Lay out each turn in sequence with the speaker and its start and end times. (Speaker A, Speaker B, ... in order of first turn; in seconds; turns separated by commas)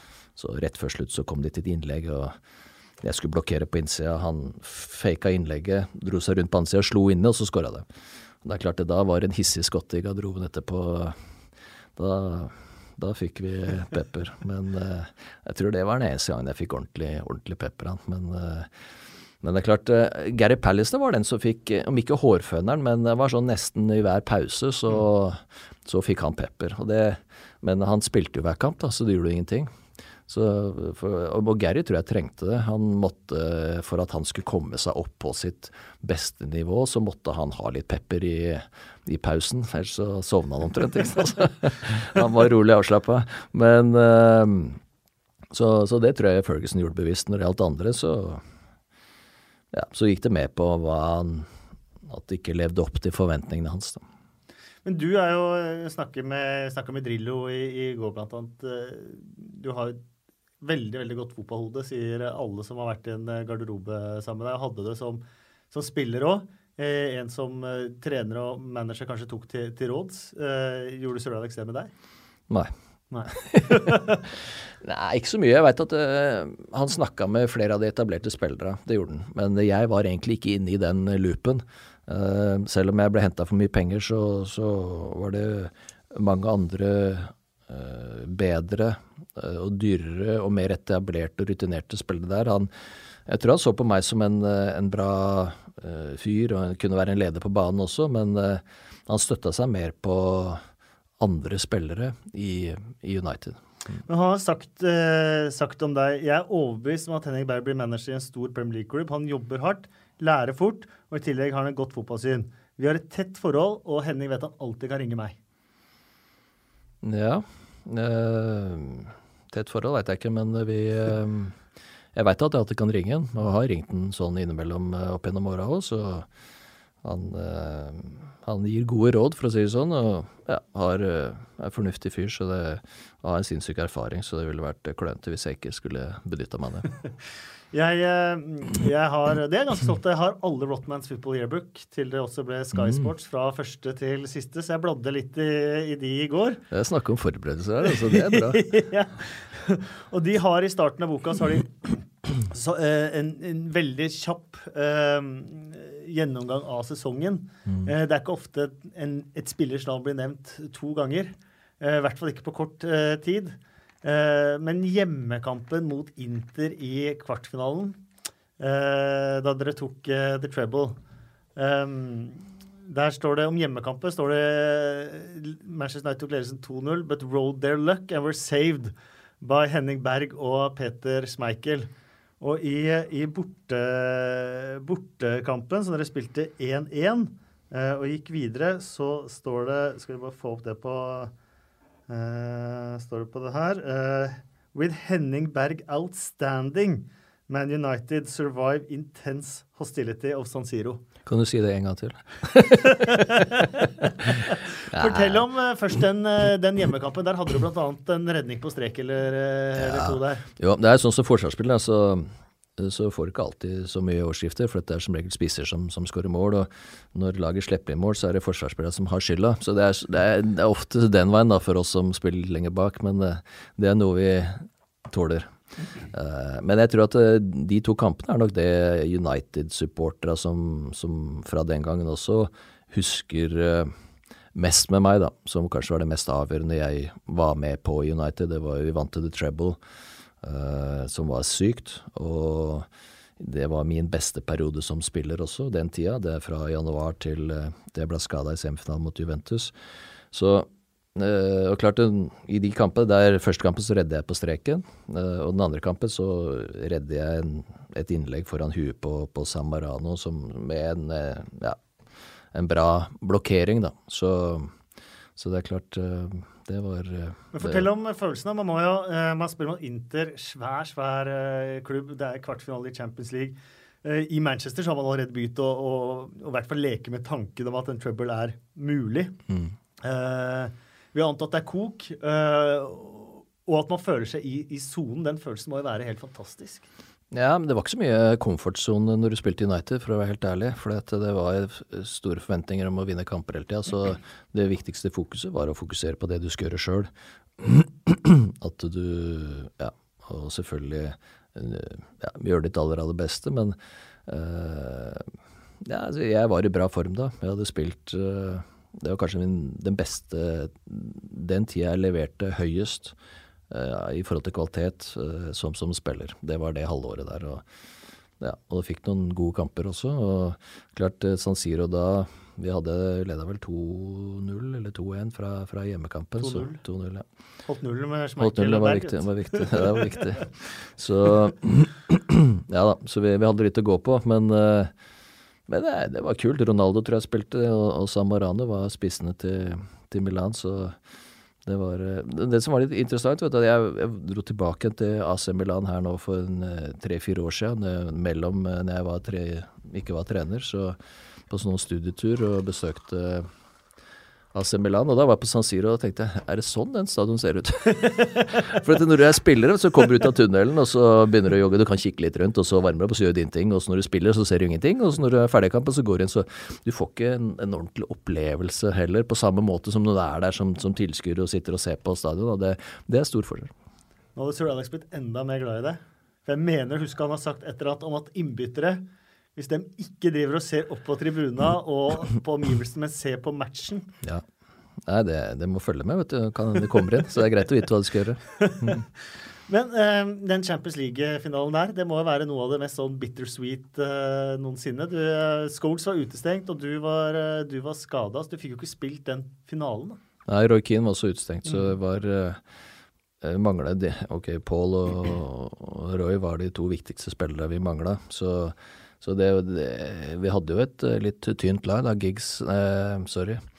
Speaker A: 0.3-2.4, Speaker A: 3.0-7.8, Speaker A: 8.4-11.2, Speaker A: 12.0-18.7, Speaker A: 19.4-29.7, Speaker A: 30.3-44.8, Speaker A: 45.5-48.4, Speaker A: 49.7-51.5, Speaker A: 52.0-54.0, Speaker B: 54.8-60.0, Speaker B: 60.6-71.9, Speaker B: 73.1-74.2, Speaker A: 73.3-92.7, Speaker A: 93.2-100.6, Speaker A: 101.2-103.6, Speaker B: 104.0-115.4, Speaker A: 117.0-121.6, Speaker A: 122.1-126.3, Speaker A: 127.0-136.9, Speaker B: 137.7-146.6, Speaker A: 142.8-143.1, Speaker A: 146.7-148.7, Speaker B: 147.8-168.0, Speaker B: 168.6-171.0, Speaker B: 171.6-181.9, Speaker B: 182.4-191.3, Speaker B: 192.1-201.0, Speaker A: 201.2-203.4, Speaker B: 202.6-210.4, Speaker A: 204.9-205.4, Speaker A: 209.8-233.9, Speaker A: 234.5-239.8, Speaker A: 240.4-242.9, Speaker A: 243.4-249.7, Speaker A: 250.3-261.8, Speaker A: 262.5-264.7, Speaker A: 265.4-267.9, Speaker B: 267.5-279.4, Speaker B: 280.0-286.9, Speaker A: 287.3-305.3, Speaker A: 305.8-313.1, Speaker A: 313.7-317.6, Speaker A: 318.4-327.2, Speaker B: 326.4-326.8, Speaker B: 327.7-330.1, Speaker A: 328.4-334.9, Speaker A: 335.7-341.0, Speaker A: 341.6-351.0, Speaker A: 351.5-353.5, Speaker A: 354.5-373.7, Speaker B: 374.4-379.0, Speaker B: 379.5-384.1, Speaker A: 385.0-389.0, Speaker B: 388.6-389.0, Speaker B: 389.7-400.2, Speaker A: 400.5-402.6, Speaker A: 403.4-413.6